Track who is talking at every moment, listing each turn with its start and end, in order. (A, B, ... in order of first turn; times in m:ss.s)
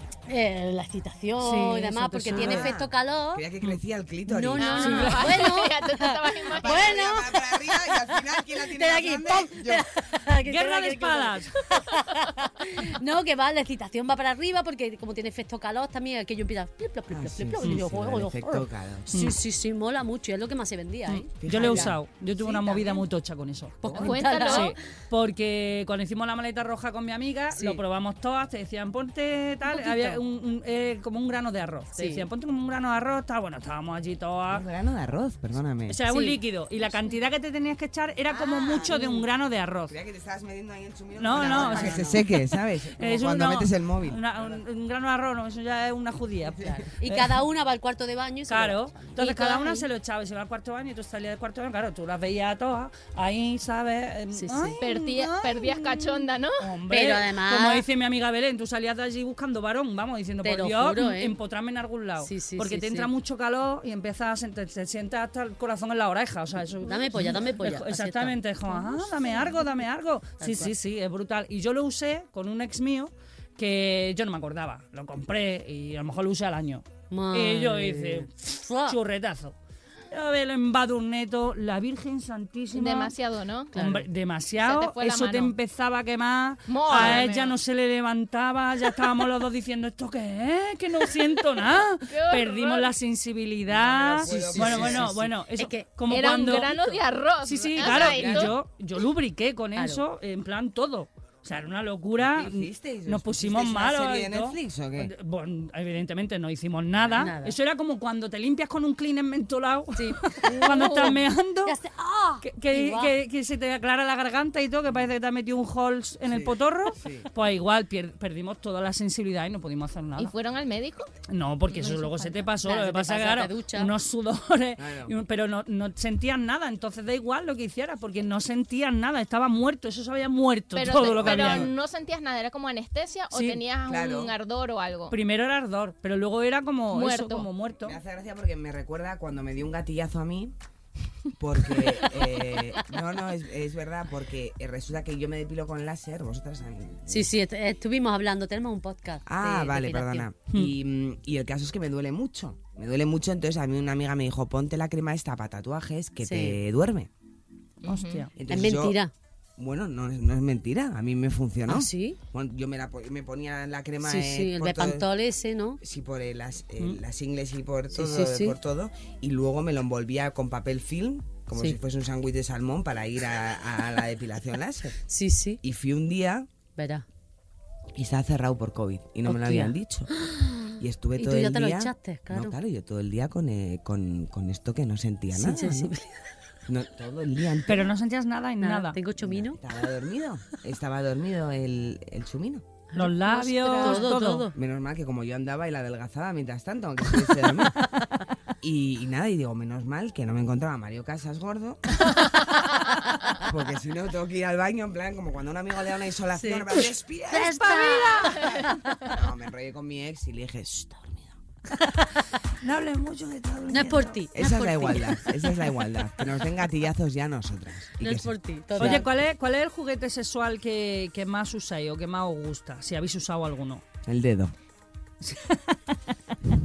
0:00.3-0:03.5 A
0:01.4-0:02.7 B
0:02.3-0:05.1 C
0:04.2-0:22.0 A
0:04.6-0:07.2 D
0:04.8-0:05.4 B
0:06.6-0:09.9 C
0:10.4-0:11.6 B
0:17.1-0:19.1 C
0:19.1-0:19.4 B
0:21.1-0:34.6 B
0:21.4-0:23.0 C
0:22.5-0:22.9 A
0:23.8-0:24.8 A
0:23.8-0:24.2 C
0:23.9-0:24.7 D
0:27.5-0:27.8 A
0:29.7-0:30.2 A
0:32.0-0:32.2 A
0:34.5-0:36.0 C
0:35.9-0:39.9 B
0:36.1-0:36.4 A
0:38.3-0:39.0 C
0:38.8-0:39.2 A
0:39.9-0:44.6 C
0:41.2-0:42.4 B
0:41.3-0:42.2 A
0:43.0-0:47.4 B
0:46.6-0:46.8 C
0:46.6-0:49.9 A
0:48.5-1:19.6 B
0:54.3-0:54.8 A
0:54.8-0:56.6 D
0:56.9-0:57.8 A
1:00.4-1:01.4 A
1:02.2-1:03.1 A
1:06.8-1:09.7 A
1:10.4-1:10.7 A
1:17.1-1:19.0 A
1:20.1-1:23.1 B
1:22.7-1:23.7 D
1:23.7-1:51.8 B
1:23.7-1:24.1 A
1:24.6-1:25.5 D
1:26.7-1:27.6 D
1:26.9-1:27.2 C
1:32.0-1:32.9 D
1:33.7-1:35.3 C
1:34.2-1:35.9 A
1:36.1-1:38.6 D
1:37.8-1:38.6 C
1:39.8-1:40.0 A
1:42.2-1:45.1 C
1:47.0-1:47.3 C
1:47.1-1:47.6 A
1:50.0-1:53.1 A
1:52.4-2:00.3 B
1:56.2-1:57.3 C
2:00.2-2:01.1 D
2:01.3-2:11.7 B
2:01.8-2:03.9 A
2:04.8-2:05.2 C
2:10.7-2:15.2 D
2:11.1-2:11.7 C
2:13.3-2:13.6 B
2:13.9-2:14.4 C
2:15.1-2:18.0 B
2:16.9-2:17.5 D
2:17.8-2:20.6 C
2:21.4-2:27.3 C
2:27.1-2:30.3 A
2:29.2-2:37.1 C
2:36.2-2:36.6 A
2:37.8-2:38.3 D
2:37.9-2:38.3 B
2:38.4-2:39.0 C
2:38.5-2:39.1 A
2:39.6-2:45.1 C
2:41.7-2:42.2 A
2:44.0-2:45.8 A
2:45.8-2:55.0 C
2:47.9-2:48.6 A
2:55.1-2:55.6 A
2:55.6-2:56.5 C
2:56.8-2:57.0 A
2:58.0-3:00.1 C
2:59.2-3:02.6 A
3:00.8-3:05.9 C
3:05.3-3:06.1 A
3:06.7-3:07.9 C
3:07.6-3:09.0 B
3:08.6-3:09.6 A
3:09.2-3:12.6 C
3:12.9-3:14.6 A
3:12.9-3:14.5 B
3:13.6-3:13.9 D
3:14.5-3:17.9 C
3:18.6-3:22.1 C
3:23.4-3:31.4 C
3:26.4-3:29.1 A
3:27.4-3:28.8 B
3:32.2-3:34.2 B
3:33.7-3:35.5 A
3:34.3-3:39.1 C
3:38.0-3:39.1 A
3:38.8-3:43.8 B
3:44.0-3:44.5 C
3:45.2-3:46.4 B